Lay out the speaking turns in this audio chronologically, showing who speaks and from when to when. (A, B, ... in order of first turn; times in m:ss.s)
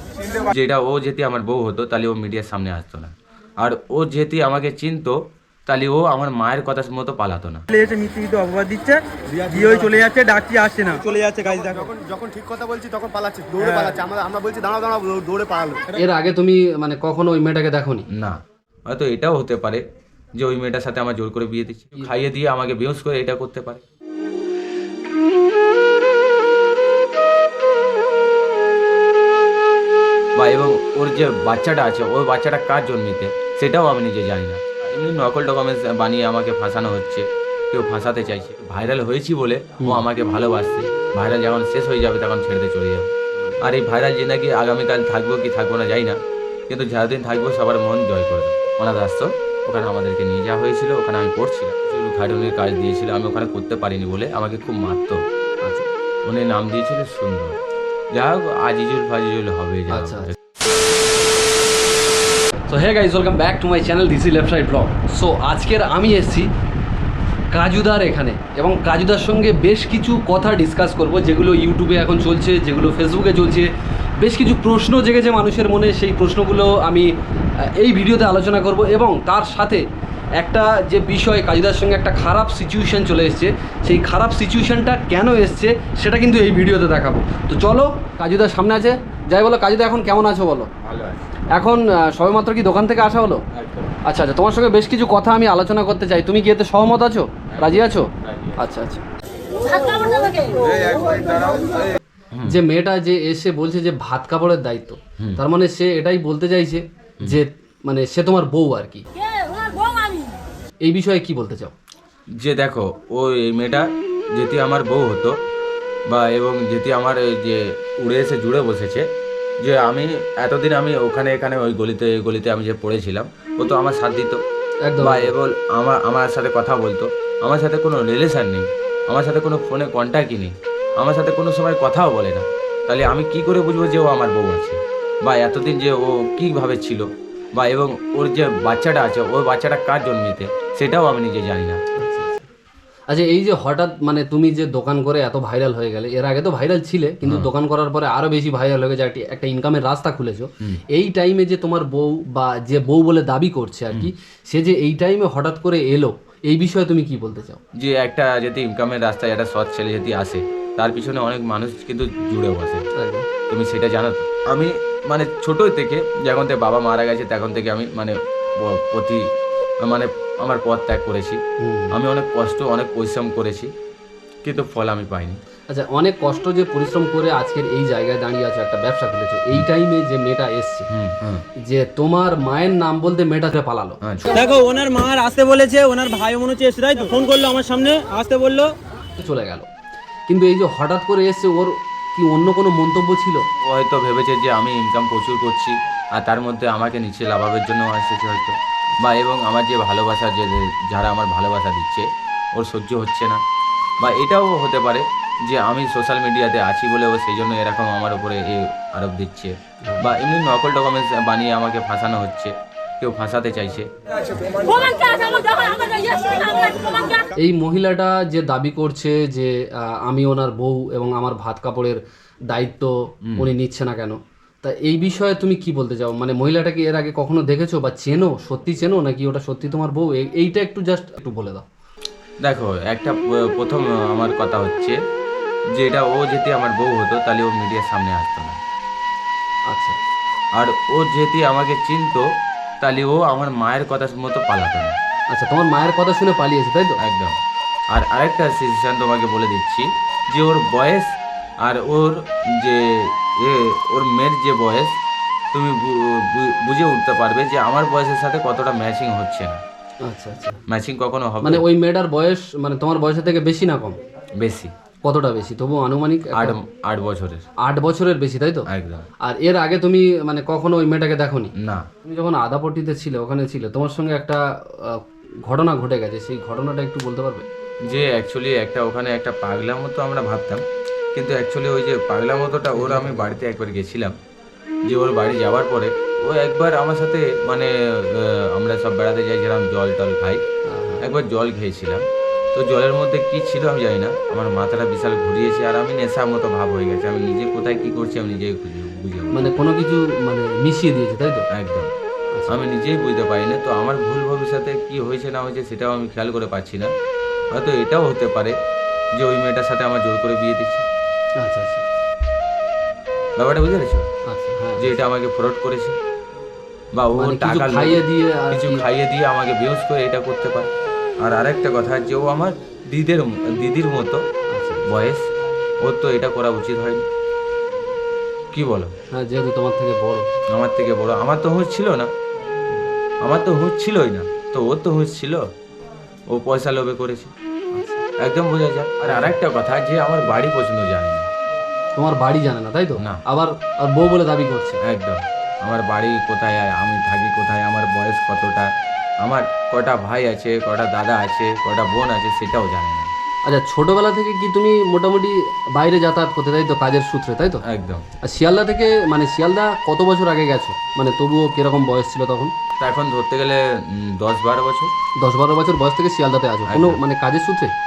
0:00.3-0:07.6 A
0:07.7-0:11.8 B
0:09.3-0:10.1 C
0:11.5-0:15.9 C
0:15.9-0:18.1 D
0:18.1-0:19.8 A
0:20.4-0:23.8 A
0:30.4-0:43.1 A
0:43.6-0:46.2 A
0:46.7-0:55.2 A
0:55.6-0:55.9 D
0:56.2-0:57.5 A
0:58.1-1:00.3 A
0:59.9-1:00.3 D
1:02.6-1:06.5 D
1:07.5-1:19.8 D
1:20.4-1:30.7 D
1:30.8-1:31.2 A
1:31.5-1:33.4 D
1:33.5-1:34.0 A
1:34.0-1:39.0 D
1:37.5-1:38.6 A
1:39.6-1:41.1 E
1:40.8-1:41.7 A
1:42.3-1:42.6 A
1:42.4-1:49.5 D
1:49.9-1:50.3 E
1:50.8-1:51.7 D
1:52.4-1:55.4 A
1:56.1-1:59.1 A
1:59.6-2:04.4 A
2:04.8-2:05.3 D
2:05.0-2:21.8 A
2:22.0-2:22.5 D
2:23.1-2:37.6 D
2:37.8-2:42.8 A
2:43.0-2:43.3 D
2:43.5-2:49.2 A
2:49.8-2:53.7 A
2:51.6-2:51.9 D
2:54.4-2:55.4 A
2:55.7-3:00.9 D
3:00.9-3:01.4 A
3:01.6-3:04.0 D
3:04.3-3:08.8 B
3:09.2-3:09.7 D
3:10.3-3:13.4 D
3:13.6-3:23.4 A
3:24.0-3:33.9 A
3:34.6-3:37.2 E
3:37.3-3:51.6 D
3:52.4-3:55.0 A
3:55.7-3:58.6 A
3:59.7-4:00.0 D
4:00.6-4:02.3 A
4:02.8-4:04.9 A
4:05.3-4:07.0 D
4:07.0-4:07.4 A
4:07.9-4:11.1 A
4:11.6-4:14.9 A
4:15.5-4:19.6 A
4:20.0-4:20.6 D
4:20.7-4:21.6 A
4:21.4-4:24.0 D
4:24.4-4:24.7 A
4:25.0-4:26.6 D
4:26.3-4:27.4 A
4:27.6-4:28.7 D
4:28.7-4:29.0 A
4:29.2-4:31.5 D
4:31.6-4:31.8 A
4:32.0-4:37.5 D
4:37.9-4:40.6 A
4:41.1-4:44.1 A
4:42.7-4:43.4 D
4:44.9-4:50.4 A
4:50.7-4:51.0 D
4:51.0-4:52.0 A
4:52.5-4:59.6 A
4:59.3-5:01.4 D
5:01.5-5:01.9 A
5:02.5-5:06.9 A
5:07.5-5:08.6 A
5:09.2-5:10.8 A
5:11.4-5:11.8 D
5:13.4-5:14.0 A
5:14.3-5:15.0 D
5:14.8-5:15.9 A
5:16.9-5:20.7 A
5:17.1-5:18.8 D
5:21.2-5:24.2 A
5:24.5-5:25.0 D
5:24.8-5:25.2 A
5:25.8-5:27.0 A
5:28.5-5:28.9 A
5:29.1-5:30.3 D
5:30.5-5:32.1 A
5:33.2-5:35.4 A
5:36.3-5:37.3 A
5:37.7-5:38.0 D
5:38.2-5:41.3 A
5:39.0-5:39.3 D
5:42.0-5:44.8 D
5:44.8-5:48.7 A
5:49.2-5:53.1 A
5:53.5-5:57.6 D
5:57.6-5:58.0 A
5:58.2-6:02.5 D
6:02.8-6:04.9 A
6:05.2-6:07.7 D
6:06.7-6:07.0 A